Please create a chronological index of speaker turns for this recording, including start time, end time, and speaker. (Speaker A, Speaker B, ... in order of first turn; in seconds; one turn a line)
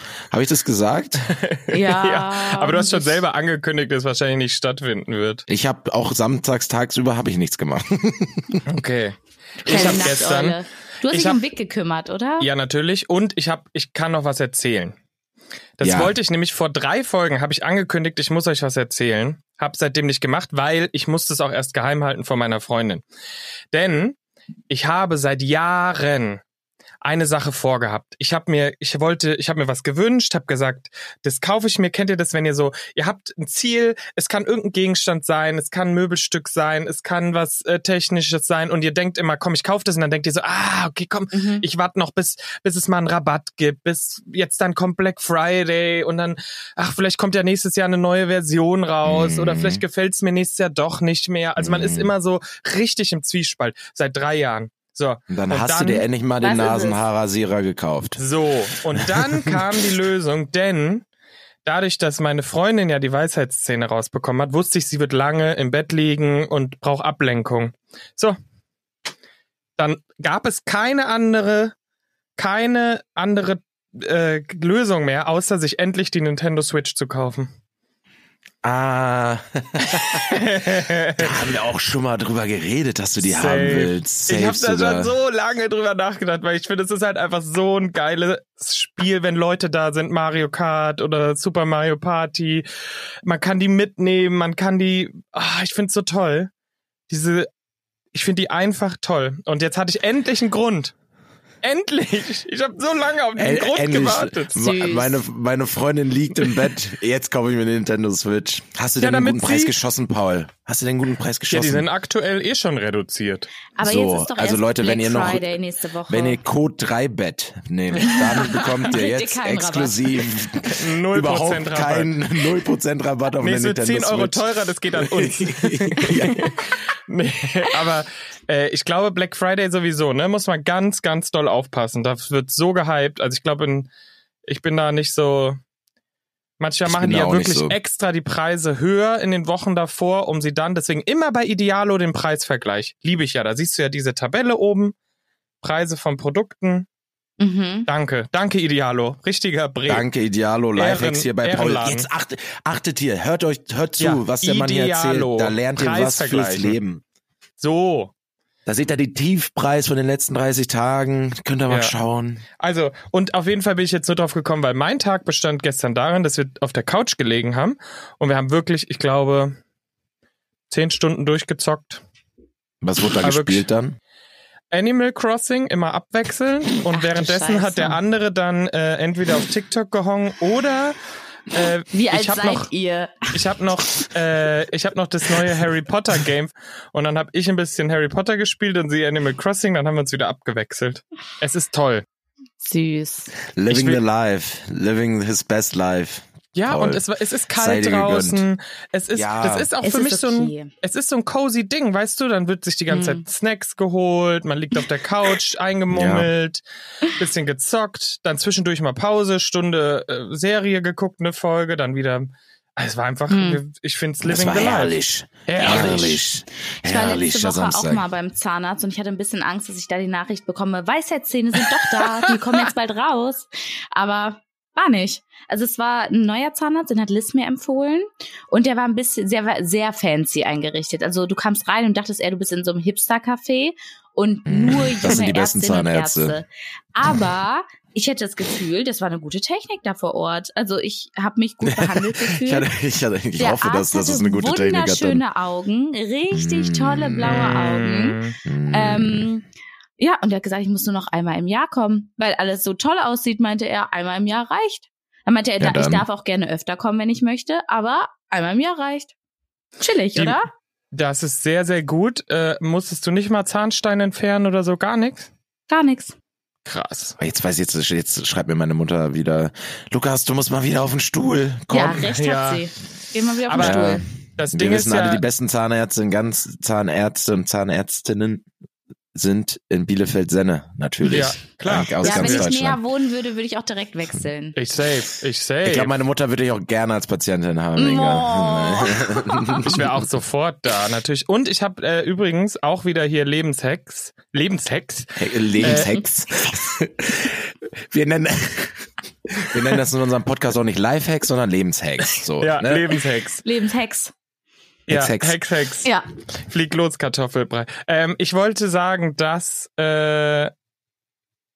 Speaker A: 0.3-1.3
Speaker B: 1.3-5.5
Speaker C: 1.7-3.2
Speaker A: 5.5-8.6
Speaker B: 8.7-11.4
Speaker C: 9.6-12.5
Speaker B: 12.4-15.0
Speaker B: 15.8-23.0
Speaker A: 15.8-16.1
Speaker B: 23.7-24.2
Speaker B: 24.7-26.4
Speaker B: 27.0-56.0
Speaker C: 41.3-41.6
Speaker A: 49.0-49.8
Speaker A: 51.6-52.1
Speaker A: 55.3-58.2
Speaker C: 56.4-57.0
Speaker B: 58.2-61.0
Speaker A: 59.0-59.6
Speaker B: 61.6-68.4
Speaker B: 69.8-71.8
Speaker B: 72.4-77.5
Speaker A: 78.6-80.5
Speaker B: 79.9-81.5
Speaker A: 81.2-85.1
Speaker B: 83.2-92.7
Speaker B: 93.2-96.5
Speaker B: 97.1-97.5
Speaker B: 98.1-100.9
Speaker B: 101.6-104.6
Speaker A: 103.4-111.9
Speaker C: 104.5-105.2
Speaker B: 109.0-109.8
Speaker B: 111.5-113.5
Speaker C: 113.8-116.4
Speaker A: 113.8-115.5
Speaker A: 116.1-126.5
Speaker C: 118.0-120.3
Speaker B: 120.7-122.1
Speaker B: 123.4-133.9
Speaker B: 134.5-135.6
Speaker B: 136.6-144.9
Speaker A: 136.8-137.8
Speaker B: 145.6-146.9
Speaker C: 147.4-147.9
Speaker B: 147.9-150.1
Speaker A: 149.9-157.0
Speaker B: 150.8-152.1
Speaker B: 154.0-156.8
Speaker B: 157.6-158.1
Speaker A: 158.7-162.4
Speaker B: 161.7-161.9
Speaker B: 162.6-169.6
Speaker B: 170.7-172.0
Speaker A: 172.8-174.0
Speaker B: 173.2-173.7
Speaker B: 174.7-181.0
Speaker C: 176.9-178.0
Speaker B: 181.5-182.7
Speaker C: 181.9-183.3
Speaker B: 183.3-192.0
Speaker C: 192.6-193.3
Speaker A: 193.5-197.0
Speaker B: 193.7-194.0
Speaker B: 196.5-216.2
Speaker A: 197.5-198.4
Speaker A: 199.1-199.7
Speaker C: 199.8-200.7
Speaker C: 202.9-203.2
Speaker A: 205.9-206.3
Speaker C: 213.3-213.6
Speaker A: 214.2-218.1
Speaker C: 215.6-216.1
Speaker C: 216.8-242.7
Speaker A: 234.5-236.4
Speaker A: 241.6-245.2
Speaker C: 243.4-249.5
Speaker A: 246.3-247.5
Speaker B: 247.2-248.4
Speaker A: 248.4-249.3
Speaker C: 250.0-259.1
Speaker A: 255.6-256.1
Speaker C: 259.8-260.5
Speaker B: 260.1-260.4
Speaker B: 260.9-265.3
Speaker C: 265.7-266.2
Speaker B: 266.6-267.2
Speaker A: 267.2-272.1
Speaker C: 271.7-274.0
Speaker B: 272.1-272.7
Speaker B: 273.5-275.2
Speaker A: 273.6-278.5
Speaker A: 279.1-282.8
Speaker B: 281.0-282.5
Speaker C: 282.0-284.6
Speaker B: 284.5-285.9
Speaker A: 285.6-290.0
Speaker C: 287.8-289.7
Speaker B: 289.6-295.9
Speaker A: 295.2-303.0
Speaker B: 302.4-303.4
Speaker C: 303.4-304.1
Speaker B: 304.9-310.5
Speaker A: 304.9-305.4